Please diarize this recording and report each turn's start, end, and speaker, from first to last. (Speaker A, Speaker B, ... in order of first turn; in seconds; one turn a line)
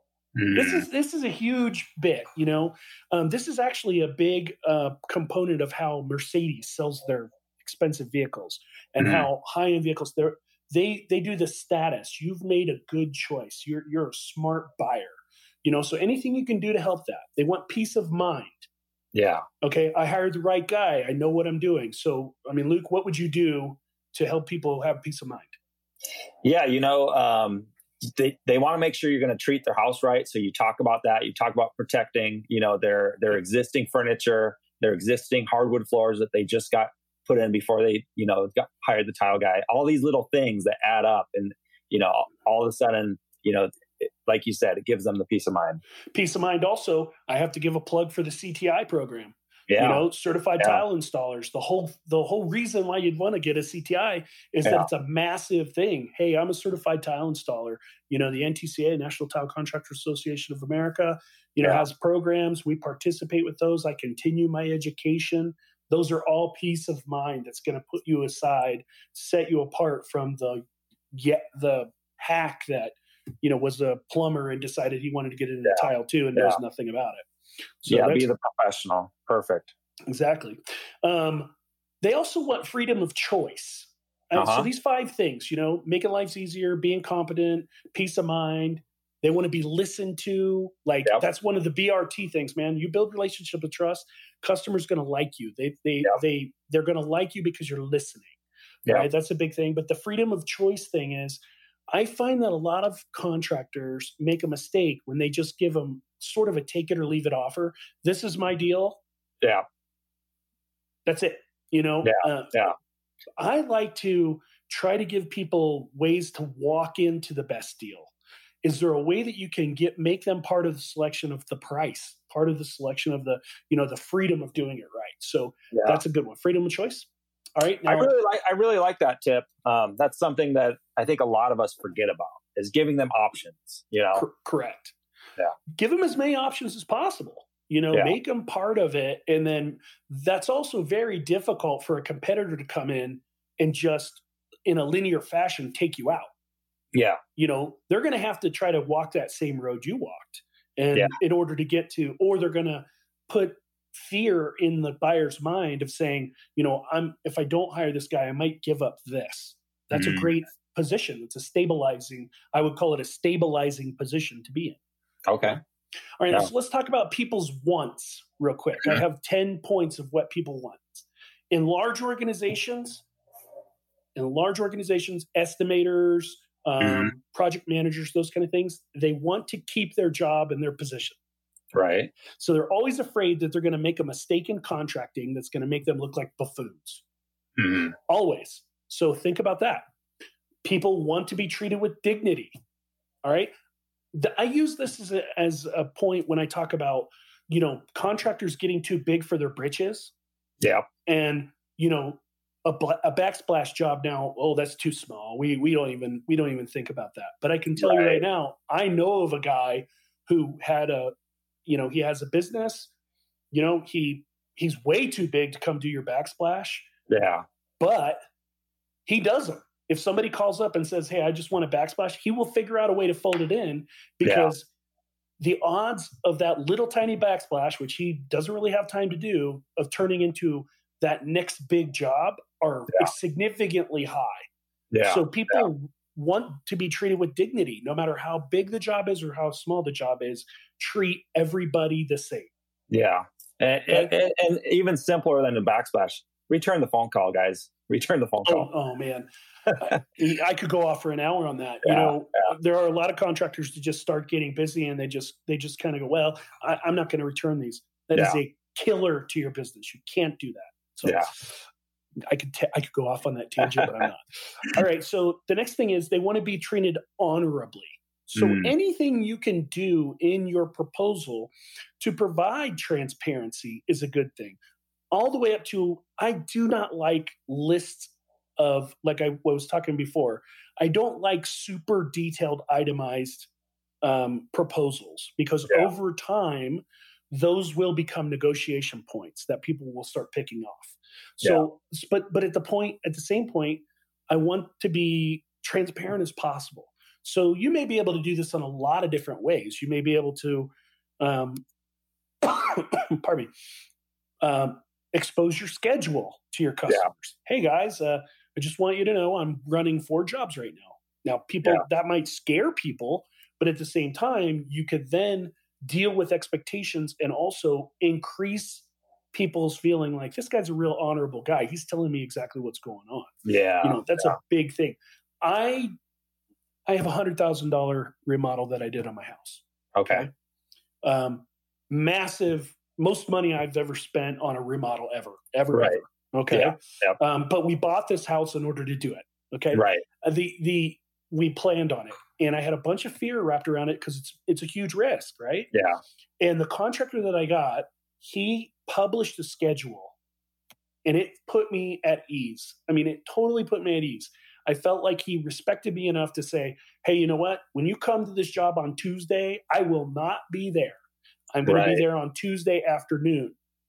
Speaker A: 0.3-0.8
Speaker B: 0.5-18.7
Speaker A: 9.0-9.3
Speaker A: 19.1-19.4
Speaker B: 19.6-25.6
Speaker A: 26.4-45.8
Speaker B: 46.1-77.2
Speaker A: 49.7-50.0
Speaker A: 54.6-54.9
Speaker A: 75.7-76.6
Speaker B: 77.8-78.2
Speaker A: 77.9-79.7
Speaker B: 80.1-98.3
Speaker A: 84.3-84.7
Speaker B: 98.9-109.0
Speaker B: 111.0-112.7
Speaker A: 112.0-112.7
Speaker B: 113.4-118.1
Speaker B: 118.6-128.1
Speaker A: 125.7-126.0
Speaker A: 127.9-134.2
Speaker B: 134.2-134.9
Speaker B: 135.8-146.3
Speaker A: 146.9-147.2
Speaker B: 147.3-164.8
Speaker A: 159.9-160.3
Speaker A: 165.3-165.6
Speaker B: 166.2-173.0
Speaker B: 174.2-181.2
Speaker A: 176.8-177.1
Speaker A: 181.7-182.1
Speaker B: 182.4-187.0
Speaker A: 187.6-187.9
Speaker B: 188.1-189.8
Speaker B: 190.6-192.6
Speaker B: 193.2-193.5
Speaker B: 194.1-200.1
Speaker A: 200.6-200.8
Speaker B: 201.1-211.1
Speaker A: 207.8-208.2
Speaker B: 211.7-212.9
Speaker B: 213.5-216.9
Speaker A: 217.1-217.4
Speaker B: 217.8-218.2
Speaker B: 219.1-224.7
Speaker A: 224.2-224.5
Speaker B: 225.4-234.4
Speaker A: 234.9-235.7
Speaker B: 235.0-242.5
Speaker A: 242.9-248.7
Speaker B: 248.4-261.6
Speaker A: 251.8-252.2
Speaker B: 262.3-274.6
Speaker A: 268.4-268.7
Speaker B: 275.1-283.5
Speaker B: 284.0-301.6
Speaker B: 302.4-303.5
Speaker B: 304.4-325.9
Speaker A: 323.4-324.3
Speaker B: 326.9-330.3
Speaker A: 329.9-330.3
Speaker B: 331.0-345.7
Speaker A: 335.7-336.0
Speaker A: 336.5-337.2
Speaker A: 339.7-340.0
Speaker A: 345.7-346.0
Speaker B: 346.4-350.1
Speaker B: 351.0-361.0
Speaker B: 361.5-363.5
Speaker A: 361.6-362.0